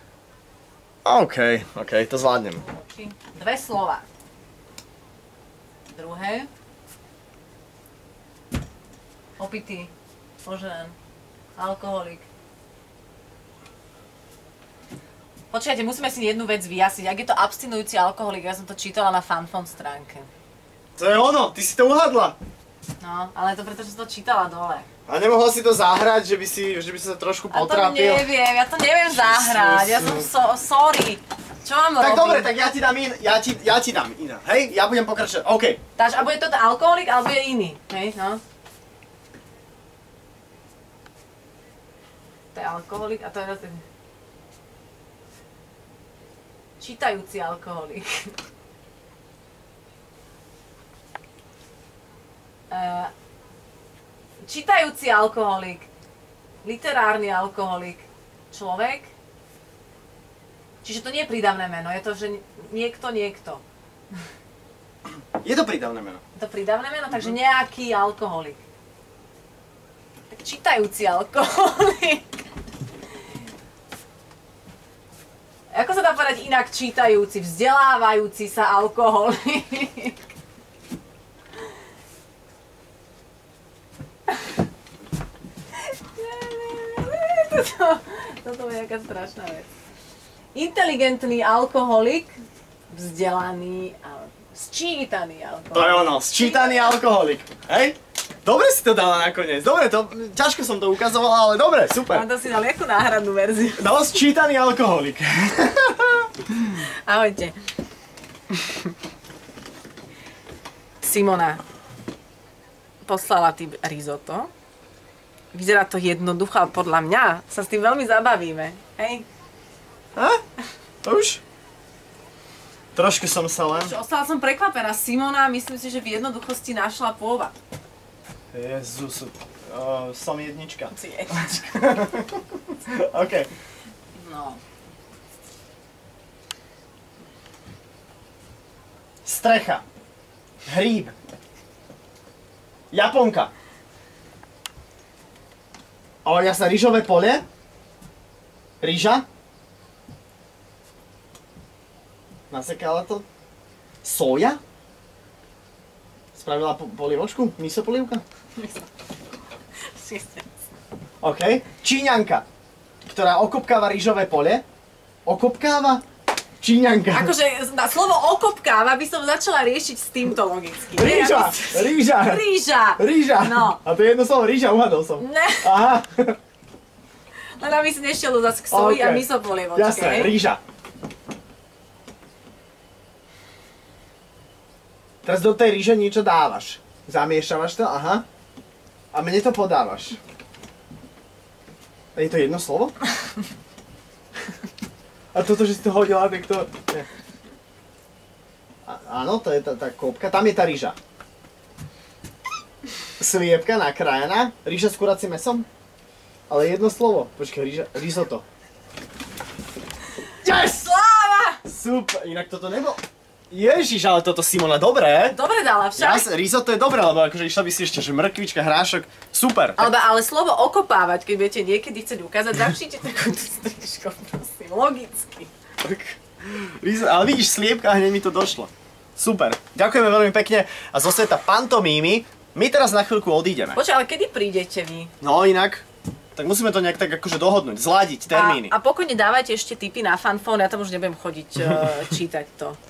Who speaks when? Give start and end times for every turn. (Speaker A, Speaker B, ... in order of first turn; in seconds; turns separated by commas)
Speaker A: 1.0-2.6, Speaker B: 2.6-4.0, Speaker B: 5.9-6.5, Speaker B: 9.4-9.9, Speaker B: 10.4-10.9, Speaker B: 11.6-12.2, Speaker B: 15.5-20.3, Speaker A: 20.9-22.4, Speaker B: 23.0-24.9, Speaker A: 25.1-28.3, Speaker B: 27.5-32.5, Speaker A: 29.1-30.3, Speaker A: 32.0-35.8, Speaker B: 36.0-38.4, Speaker B: 42.5-43.8, Speaker B: 46.8-48.3, Speaker B: 52.7-53.1, Speaker B: 54.4-55.9, Speaker B: 56.6-59.1, Speaker B: 60.8-63.6, Speaker A: 65.4-66.2, Speaker B: 66.4-68.6, Speaker B: 70.3-72.3, Speaker B: 75.7-80.2, Speaker B: 85.8-89.7, Speaker B: 90.5-92.3, Speaker B: 92.9-97.0, Speaker A: 95.7-102.2, Speaker B: 102.1-103.8, Speaker A: 103.8-106.8, Speaker B: 106.8-107.5, Speaker B: 108.5-108.9, Speaker B: 111.0-111.6, Speaker B: 113.0-114.5, Speaker B: 115.5-119.2, Speaker A: 121.0-121.4, Speaker A: 123.0-124.0, Speaker B: 123.7-127.5, Speaker A: 128.5-133.5, Speaker B: 130.9-131.8, Speaker B: 134.1-134.6, Speaker A: 139.2-139.8, Speaker A: 140.7-141.1, Speaker A: 142.9-143.5, Speaker A: 146.2-147.4, Speaker A: 148.8-149.2, Speaker A: 152.5-153.2, Speaker A: 154.0-154.6, Speaker A: 156.3-158.2, Speaker B: 158.6-158.9, Speaker B: 159.9-160.4, Speaker A: 161.2-162.4, Speaker A: 163.1-164.6, Speaker A: 165.2-166.0, Speaker A: 166.6-167.3, Speaker B: 167.1-173.8, Speaker A: 170.9-172.4, Speaker A: 172.9-176.4, Speaker B: 175.2-175.7, Speaker B: 177.6-180.3, Speaker A: 178.7-180.6, Speaker A: 185.2-188.2, Speaker A: 189.1-190.2, Speaker A: 192.1-192.9, Speaker A: 195.3-197.1, Speaker A: 198.8-201.0, Speaker A: 203.2-205.7, Speaker A: 206.5-208.4, Speaker A: 210.4-210.9, Speaker B: 210.4-211.6, Speaker A: 211.7-215.4, Speaker B: 215.3-216.3, Speaker A: 216.0-219.9, Speaker B: 219.8-225.5, Speaker A: 225.8-233.8, Speaker B: 233.7-235.1, Speaker A: 235.2-235.8, Speaker A: 236.4-238.7, Speaker B: 238.3-242.8